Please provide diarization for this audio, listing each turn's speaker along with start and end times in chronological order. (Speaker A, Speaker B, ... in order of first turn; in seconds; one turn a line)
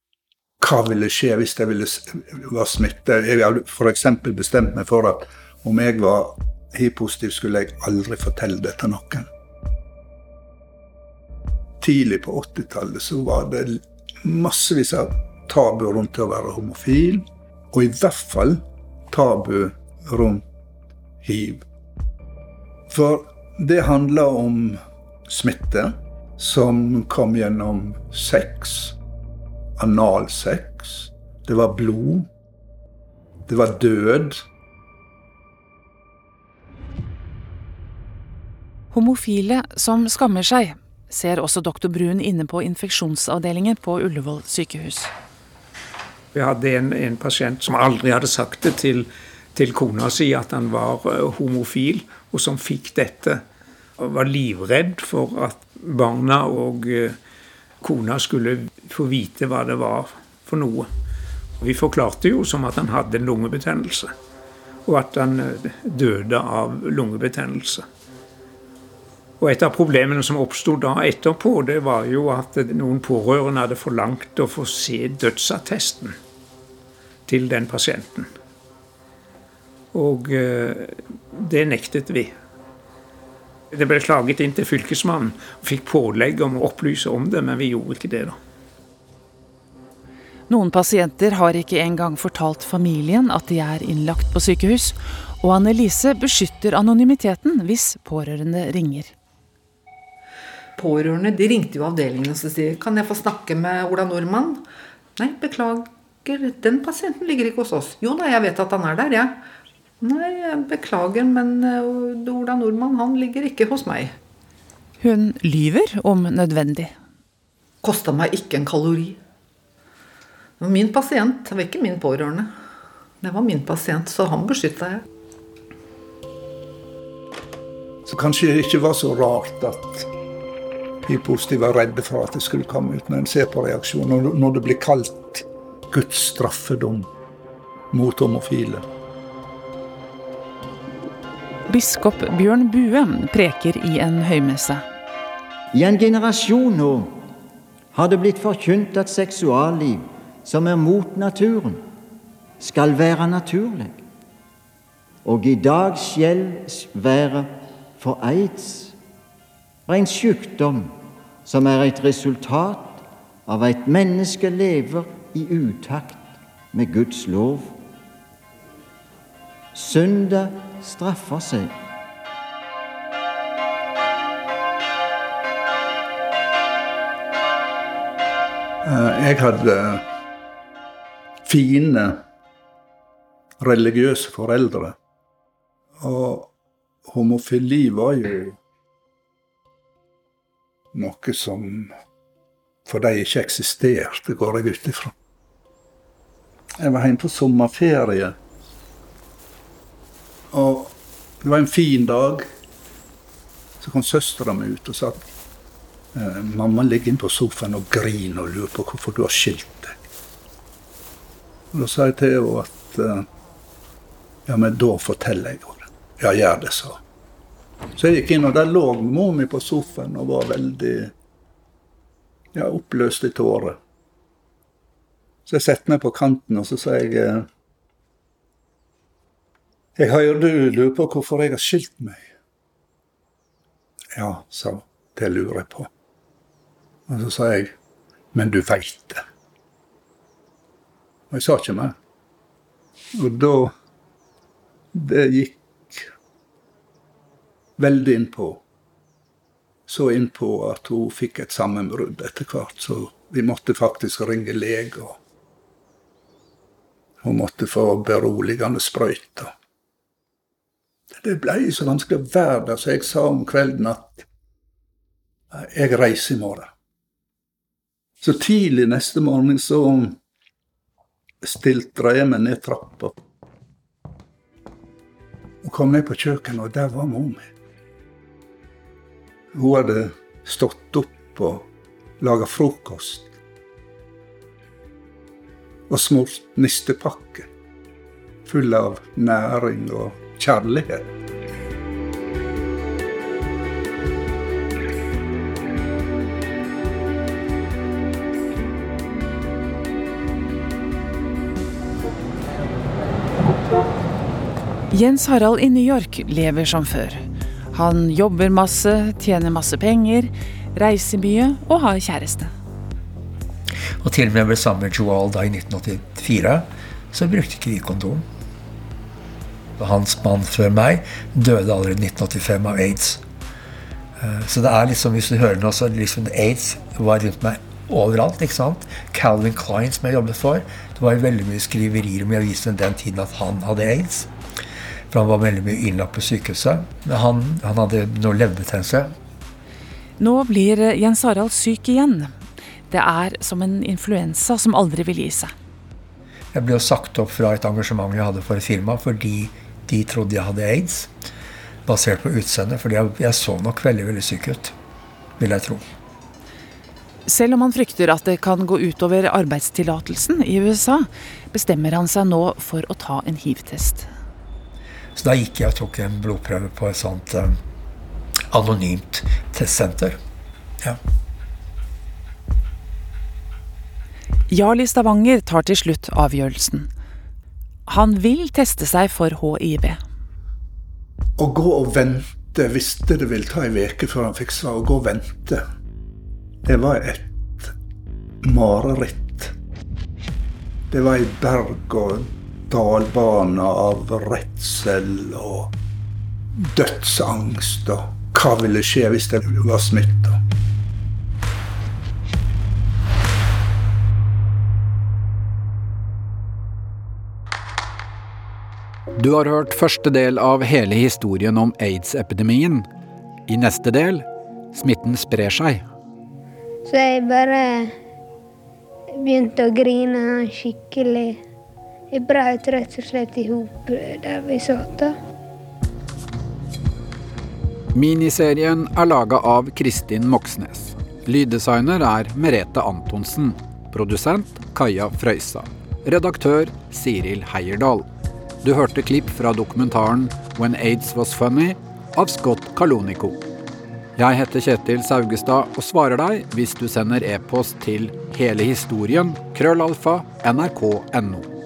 Speaker A: 0.6-9.3
Speaker A: 11.8-20.4
Speaker A: 21.2-21.6
Speaker A: 22.9-29.0
Speaker A: 29.8-32.3
Speaker A: 33.5-34.4
Speaker B: 38.9-45.1
Speaker C: 46.3-53.4
Speaker C: 54.0-57.2
Speaker C: 57.8-60.9
Speaker C: 61.6-64.1
Speaker C: 64.9-67.8
Speaker C: 69.4-76.2
Speaker C: 77.3-78.3
Speaker C: 79.9-82.3
Speaker C: 83.7-88.4
Speaker B: 90.5-99.1
Speaker D: 100.8-104.7
Speaker D: 105.2-109.4
Speaker D: 110.0-114.1
Speaker B: 115.0-116.9
Speaker D: 117.8-119.2
Speaker D: 120.6-122.5
Speaker D: 123.2-125.0
Speaker A: 128.1-130.1
Speaker A: 131.1-137.1
Speaker A: 137.9-138.8
Speaker B: 141.7-144.8
Speaker E: 145.7-147.2
Speaker E: 147.9-151.8
Speaker E: 152.6-154.0
Speaker E: 155.2-159.0
Speaker E: 159.9-167.8
Speaker E: 169.7-171.8
Speaker A: 178.8-180.0
Speaker A: 181.4-182.2
Speaker A: 183.6-185.0
Speaker A: 186.0-186.5
Speaker A: 187.1-188.6
Speaker A: 190.9-191.9
Speaker A: 192.9-195.1
Speaker A: 196.8-198.4
Speaker A: 200.5-202.5
Speaker A: 203.8-205.3
Speaker A: 206.1-210.0
Speaker A: 211.7-213.3
Speaker A: 214.5-217.0
Speaker A: 218.0-221.1
Speaker A: 222.5-223.8
Speaker A: 225.5-227.5
Speaker A: 230.0-232.3
Speaker A: 234.1-235.9
Speaker A: 237.1-237.7
Speaker A: 238.3-239.2
Speaker A: 241.3-241.9
Speaker A: 243.2-243.7
Speaker A: 244.9-246.1
Speaker A: 247.8-248.6
Speaker A: 249.9-255.2
Speaker A: 257.2-259.5
Speaker A: 261.1-264.3
Speaker A: 265.5-266.7
Speaker A: 268.2-270.2
Speaker A: 271.4-273.1
Speaker A: 275.6-277.5
Speaker A: 279.6-281.7
Speaker A: 282.2-283.4
Speaker A: 285.9-287.5
Speaker A: 288.4-291.1
Speaker B: 304.9-312.5
Speaker F: 314.0-318.3
Speaker F: 319.8-323.2
Speaker F: 324.2-334.3
Speaker F: 335.1-339.1
Speaker B: 340.2-342.4
Speaker B: 342.9-345.5
Speaker F: 346.5-351.1
Speaker F: 351.9-354.8
Speaker F: 355.4-355.8
Speaker B: 357.3-364.1
Speaker F: 365.2-367.6
Speaker F: 368.5-370.2
Speaker B: 374.5-376.9
Speaker B: 377.9-380.0
Speaker A: 381.4-385.6
Speaker A: 386.6-387.7
Speaker A: 388.4-389.5
Speaker A: 390.9-395.7
Speaker A: 396.6-400.4
Speaker G: 409.2-412.9
Speaker G: 413.5-415.9
Speaker H: 416.9-417.9
Speaker H: 419.2-421.4
Speaker H: 422.1-425.2
Speaker G: 427.9-438.1
Speaker G: 438.6-443.4
Speaker G: 444.2-451.5